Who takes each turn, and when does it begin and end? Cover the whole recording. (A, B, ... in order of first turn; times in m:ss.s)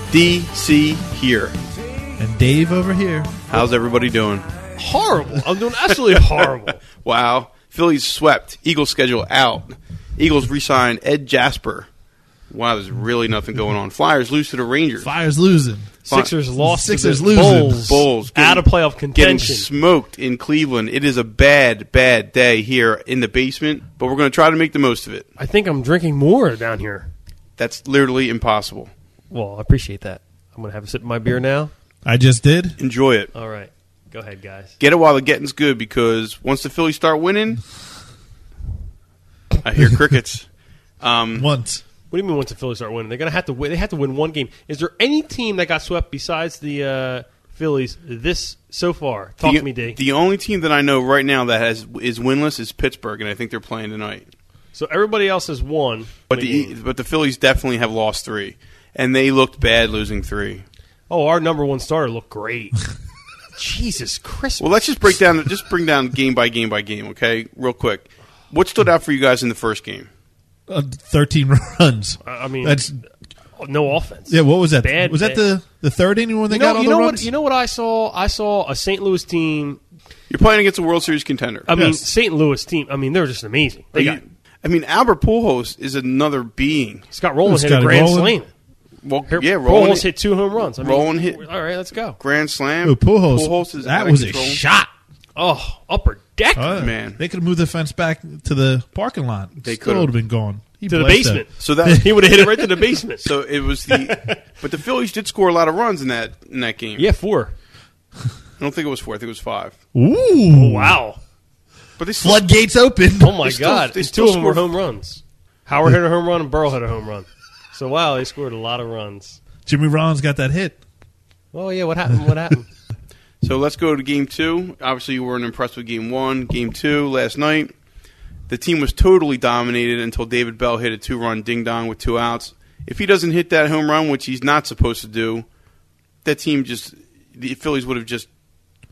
0:00.1-0:01.6 A
0:02.2-0:03.3 B
0:03.5-0:04.5 A
0:04.8-0:06.8 C
0:06.2-0:11.9 A
0:12.5-0:15.1 A
0:15.0-0:16.0 B
0:16.1-0:19.7 C
0:16.6-0:18.0 B
0:17.8-0:25.3 A
0:25.4-0:27.1 C
0:27.6-0:28.9 A
0:29.3-0:31.7 C
0:32.0-0:32.8 B
0:32.8-0:33.3 A
0:33.3-0:34.8 C
0:34.8-0:37.6 A
0:39.6-0:40.5 A
0:41.0-0:41.5 A
0:41.4-0:41.8 B
0:42.1-0:50.0 C
0:49.4-0:54.3 A
0:54.7-0:56.7 C
0:56.3-1:00.6 A
1:01.1-1:02.8 C
1:03.6-1:04.8 C
1:04.6-1:10.1 A
1:10.7-1:13.0 B
1:12.2-1:12.9 C
1:13.6-1:15.4 C
1:14.3-1:17.3 B
1:16.5-1:19.8 C
1:20.3-1:21.7 A
1:21.7-1:24.2 C
1:21.7-1:22.0 B
1:24.0-1:27.1 A
1:27.1-1:28.5 C
1:27.5-1:28.4 B
1:29.0-1:30.1 A
1:29.3-1:32.2 C
1:30.7-1:31.4 A
1:32.2-1:34.6 A
1:32.8-1:34.9 B
1:35.4-1:36.9 C
1:36.6-1:42.7 B
1:36.8-1:37.2 A
1:39.6-1:40.1 A
1:40.9-1:43.3 C
1:41.6-1:42.4 A
1:43.2-1:47.1 A
1:43.9-1:44.4 C
1:47.0-1:47.5 C
1:48.6-1:49.8 A
1:49.9-1:51.0 B
1:50.5-1:51.2 C
1:52.0-1:52.5 A
1:52.2-1:53.4 B
1:53.2-1:59.4 C
1:53.4-1:54.6 A
1:59.7-2:00.8 B
2:01.5-2:02.7 C
2:03.4-2:07.7 A
2:08.5-2:15.5 A
2:16.2-2:18.3 A